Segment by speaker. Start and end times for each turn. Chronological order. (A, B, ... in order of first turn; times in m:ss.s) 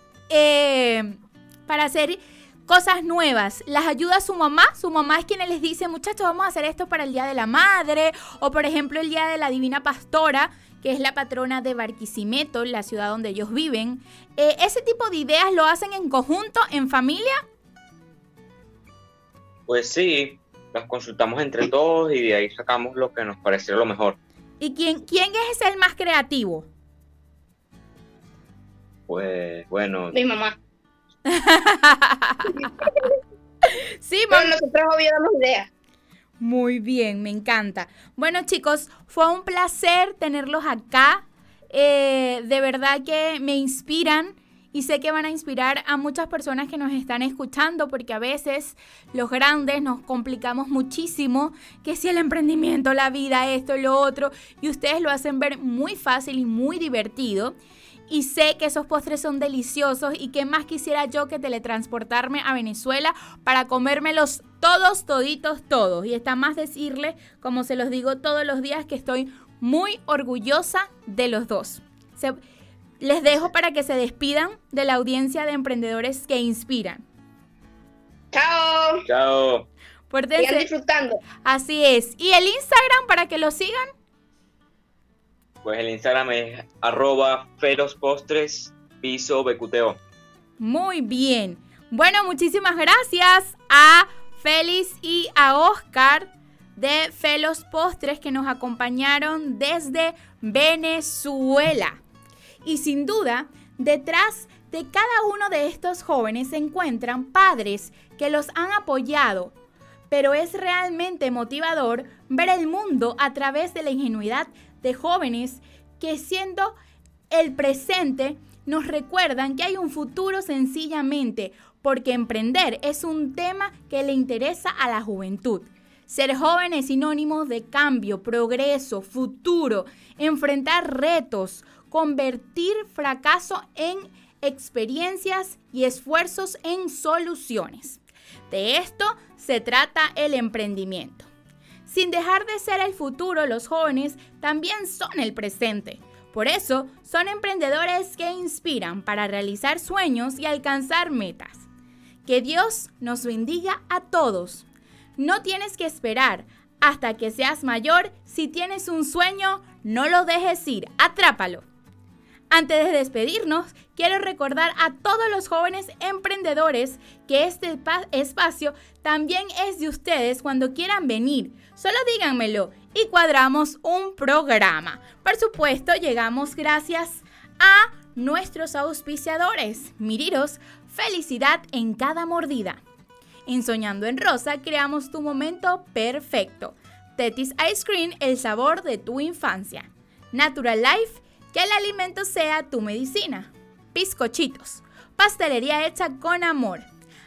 0:00.3-0:17.4 A
0:19.7-0:24.2 B
0:24.6-0:26.7 A
0:29.1-0:30.2 B
0:30.1-0:30.6 C
0:31.3-0:32.7 A
0:32.6-0:33.1 C
0:33.6-0:34.6 A
0:34.3-0:35.7 C
0:36.4-0:57.5 A
0:58.1-1:12.4 A
1:13.0-1:17.0 A
1:18.3-1:19.0 C
1:19.1-1:19.7 B
1:20.1-1:20.7 A
1:20.4-1:21.2 C
1:21.4-1:23.9 A
1:25.6-1:30.0 B
1:30.6-1:42.0 A
1:42.6-1:49.5 A
1:50.1-1:56.7 A
1:57.3-2:21.3 A
2:21.8-2:31.6 A
2:32.2-2:34.6 A
2:35.2-2:41.6 A
2:42.5-3:02.8 A
3:03.4-3:16.9 A